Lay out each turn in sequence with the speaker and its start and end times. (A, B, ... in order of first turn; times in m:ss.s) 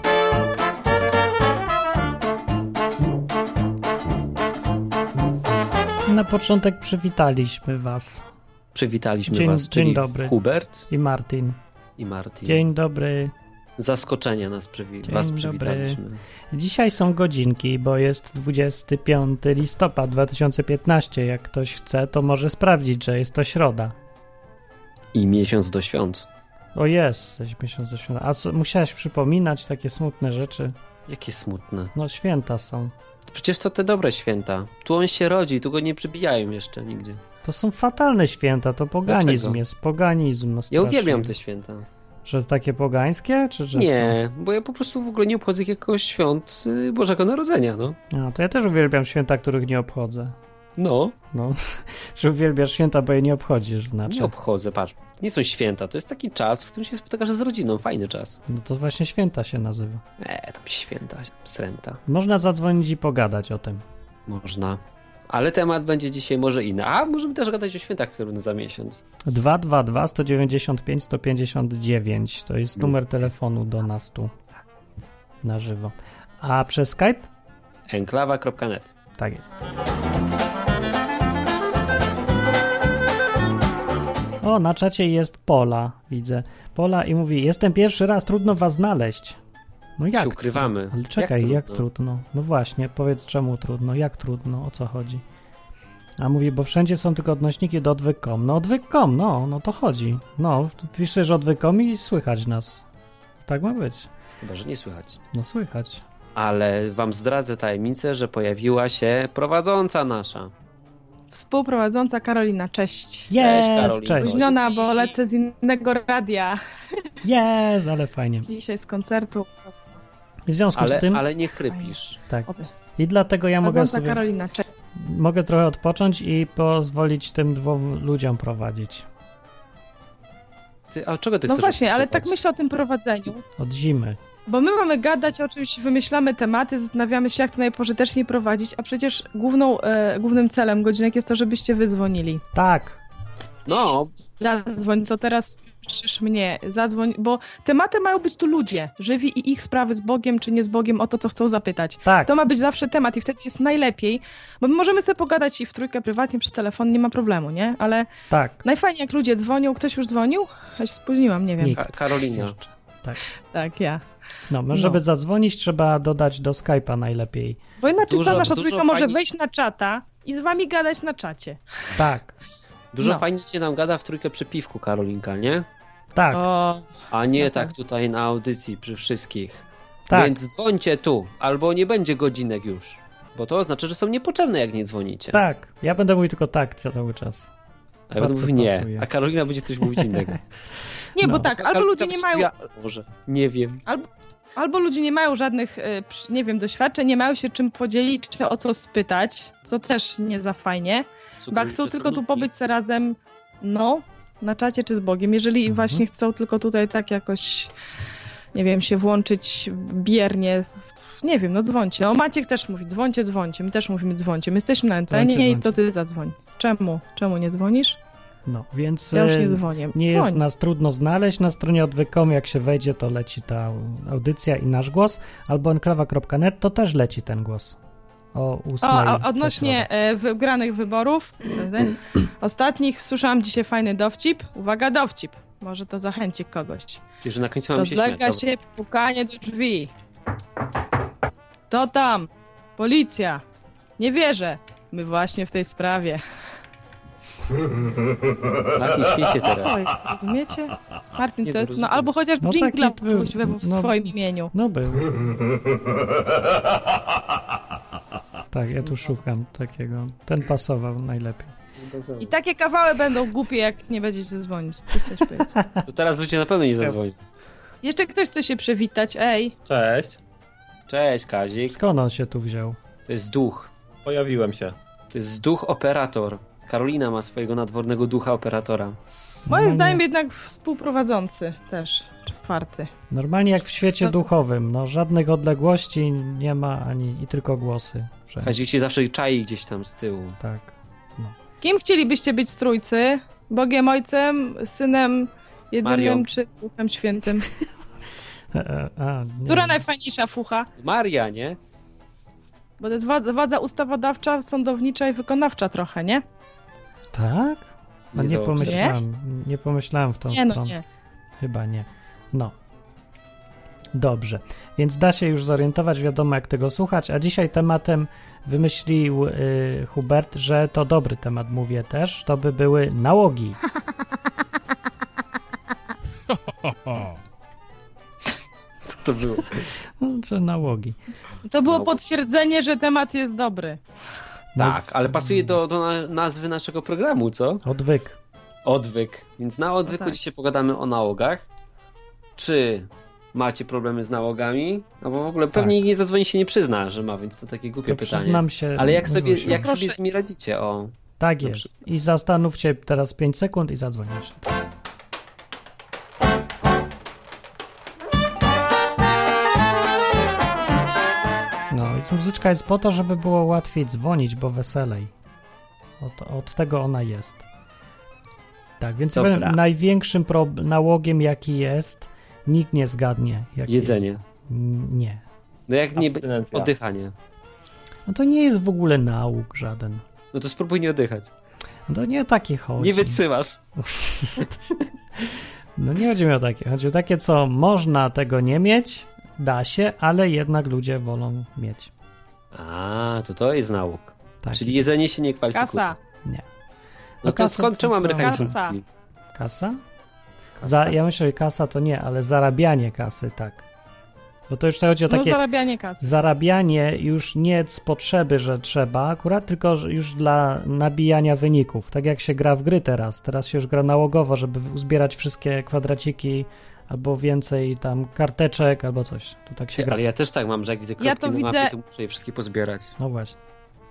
0:06.1-0:08.2 A
0:08.7-0:10.9 B
0:09.3-0:10.4 A
0:10.9-0:11.6 A
0:12.0-0:12.6 B
0:12.4-0:13.3 A
0:13.8-0:16.2 B
0:15.0-0:16.0 A
0:16.5-0:24.0 A
0:25.1-0:26.3 B
0:26.8-0:30.8 A
0:31.1-0:31.9 B
0:32.0-0:32.9 A
0:33.3-0:37.2 B
0:37.4-0:41.3 A
0:39.1-0:39.6 B
0:40.7-0:41.9 B
0:42.3-0:44.2 A
0:43.7-0:48.0 B
0:48.1-0:50.4 A
0:50.8-0:51.2 B
0:51.3-0:54.3 A
0:54.1-0:58.4 B
0:58.5-1:00.0 A
1:00.2-1:02.0 B
1:02.1-1:03.8 A
1:04.3-1:09.0 B
1:09.3-1:14.3 A
1:15.4-1:17.3 A
1:17.9-1:18.9 B
1:19.2-1:19.5 A
1:24.4-1:29.4 A
1:30.0-1:35.2 A
1:30.2-1:31.8 B
1:36.2-1:42.8 A
1:43.4-1:44.1 A
1:44.4-1:45.2 B
1:45.3-1:46.0 A
1:46.4-1:50.5 B
1:51.3-1:53.3 C
1:53.3-1:54.4 A
1:53.4-1:55.2 B
1:54.2-1:57.1 C
1:57.2-1:58.5 A
1:58.4-2:00.0 C
2:00.5-2:01.2 A
2:00.8-2:02.2 B
2:02.3-2:04.2 A
2:03.6-2:04.7 C
2:05.0-2:09.1 A
2:10.9-2:12.4 B
2:11.5-2:13.4 C
2:13.6-2:14.2 A
2:14.5-2:22.4 C
2:22.5-2:23.0 A
2:23.7-2:24.1 B
2:24.3-2:38.1 C
2:32.0-2:32.3 A
2:38.3-2:38.6 A
2:38.6-2:41.8 C
2:41.6-2:43.2 A
2:41.7-2:42.6 B
2:43.5-2:44.0 C
2:44.5-2:47.6 A
2:44.7-2:45.0 C
2:47.8-2:51.6 C
2:48.1-2:49.2 B
2:52.0-2:52.3 A
2:52.9-2:55.7 B
2:56.2-2:56.4 A
2:56.3-2:56.9 C
2:57.1-3:05.4 B
2:57.4-2:57.7 C
3:00.1-3:00.3 A
3:05.3-3:07.5 A
3:08.1-3:10.4 B
3:08.2-3:09.1 A
3:11.2-3:12.5 C
3:11.2-3:11.5 A
3:11.6-3:13.8 B
3:13.9-3:27.7 C
3:21.4-3:22.5 B
3:25.7-3:26.0 A
3:28.5-3:38.0 C
3:35.1-3:35.8 A
3:38.5-3:47.8 A
3:39.1-3:40.4 C
3:48.3-3:49.9 A
3:48.8-3:57.0 C
3:57.2-3:58.4 B
3:57.8-3:59.9 C
4:01.7-4:03.4 C
4:04.0-4:06.2 C
4:08.7-4:09.9 B
4:09.4-4:14.5 C
4:11.4-4:12.1 B
4:12.4-4:15.2 A
4:18.5-4:21.5 A
4:21.8-4:22.3 B
4:22.2-4:25.5 C
4:25.5-4:25.8 A
4:25.9-4:27.2 B
4:27.8-4:29.6 C
4:29.6-4:30.2 D
4:30.9-4:31.8 B
4:31.7-4:32.8 A
4:33.1-4:33.7 B
4:34.0-4:34.8 D
4:35.1-4:39.0 B
4:39.5-4:40.0 A
4:39.5-4:42.9 C
4:43.1-4:48.6 A
4:48.4-4:50.4 B
4:50.4-4:51.4 A
4:51.6-4:57.5 C
4:55.8-4:56.3 B
4:58.5-4:59.8 A
4:59.5-5:00.7 C
5:00.8-5:01.6 B
5:02.8-5:06.2 C
5:07.1-5:10.8 A
5:08.1-5:09.0 B
5:08.6-5:09.0 C
5:10.3-5:10.8 C
5:11.4-5:12.5 A
5:14.0-5:23.6 A
5:28.9-5:29.6 B
5:30.0-5:31.0 A
5:31.5-5:33.8 C
5:31.7-5:32.0 B
5:34.6-5:35.6 A
5:34.6-5:37.6 B
5:37.6-5:38.2 A
5:38.6-5:41.4 B
5:42.4-5:51.7 B
5:47.9-5:49.7 A
5:49.7-5:49.9 C
5:51.2-5:54.5 A
6:01.7-6:05.1 A
6:06.0-6:07.4 A
6:08.8-6:15.2 A
6:09.1-6:09.6 B
6:13.7-6:14.2 B
6:15.7-6:17.2 B
6:15.9-6:16.7 D
6:18.1-6:20.0 A
6:20.3-6:21.3 B
6:21.9-6:23.2 A
6:22.8-6:23.6 B
6:23.8-6:31.9 A
6:32.5-6:35.9 B
6:34.4-6:34.9 A
6:35.5-6:36.0 C
6:37.2-6:38.8 B
6:37.2-6:38.6 A
6:38.2-6:38.8 C
6:39.3-6:39.8 A
6:40.6-6:41.0 B
6:40.6-6:43.6 A
6:44.5-6:45.4 A
6:45.1-6:46.1 C
6:46.0-7:00.0 A
6:59.8-7:02.9 B
7:01.0-7:01.7 C
7:03.0-7:03.4 A